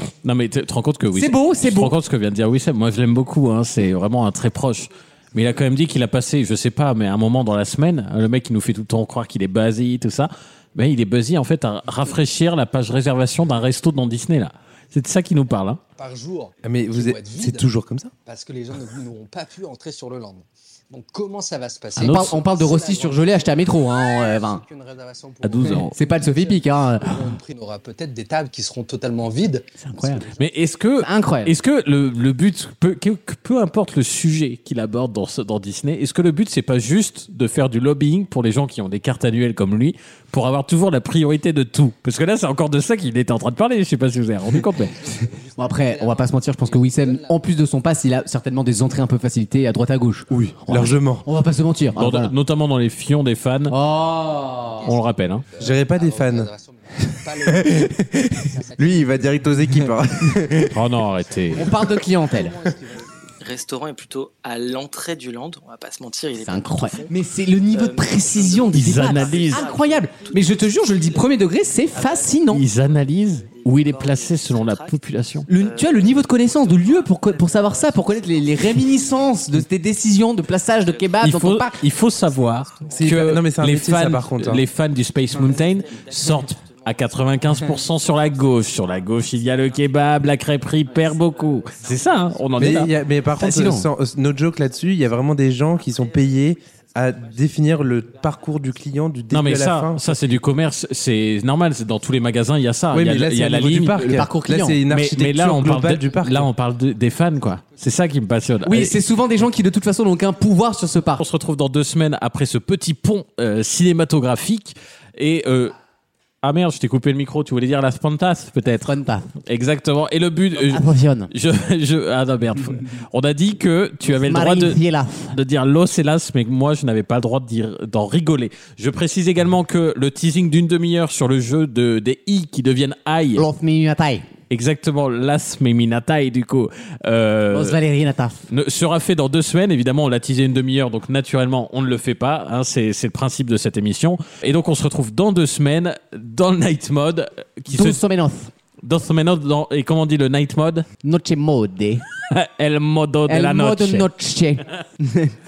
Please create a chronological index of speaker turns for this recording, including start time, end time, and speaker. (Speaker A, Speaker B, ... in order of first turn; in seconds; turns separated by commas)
Speaker A: 0.2-15.8, Speaker B: 1.1-2.0, Speaker C: 16.0-17.7, Speaker D: 16.6-18.1, Speaker C: 18.2-30.2, Speaker B: 22.0-24.6, Speaker A: 22.0-22.4, Speaker A: 25.4-26.0, Speaker B: 25.7-27.4, Speaker B: 29.8-30.3, Speaker A: 30.3-45.0, Speaker B: 31.0-31.5, Speaker C: 44.8-47.4, Speaker B: 45.6-52.3, Speaker D: 50.3-51.2, Speaker A: 52.0-53.8, Speaker B: 53.7-54.9, Speaker C: 54.5-59.4, Speaker A: 54.8-55.5, Speaker D: 55.6-61.1, Speaker A: 60.7-61.8, Speaker B: 61.5-62.6, Speaker C: 62.0-63.0, Speaker E: 63.4-67.1, Speaker B: 66.4-72.6, Speaker E: 67.7-79.5, Speaker A: 68.7-69.7, Speaker A: 72.5-75.5, Speaker B: 75.5-81.8, Speaker E: 80.6-83.3, Speaker A: 81.2-92.9, Speaker D: 82.9-84.7, Speaker E: 85.1-93.6, Speaker D: 92.6-100.4, Speaker B: 93.4-93.9, Speaker E: 94.3-99.0, Speaker A: 99.3-104.1, Speaker D: 102.9-106.5, Speaker B: 104.0-104.8, Speaker A: 104.9-109.0, Speaker B: 108.6-111.2, Speaker A: 111.2-115.8, Speaker A: 116.4-133.5, Speaker B: 118.8-119.3, Speaker B: 120.7-121.3, Speaker B: 124.1-125.4, Speaker B: 133.4-134.2, Speaker A: 134.5-137.8, Speaker B: 137.5-138.4, Speaker A: 138.5-148.0, Speaker B: 147.7-148.5, Speaker A: 148.8-150.9, Speaker B: 151.0-152.0, Speaker A: 152.3-154.1, Speaker B: 153.3-155.3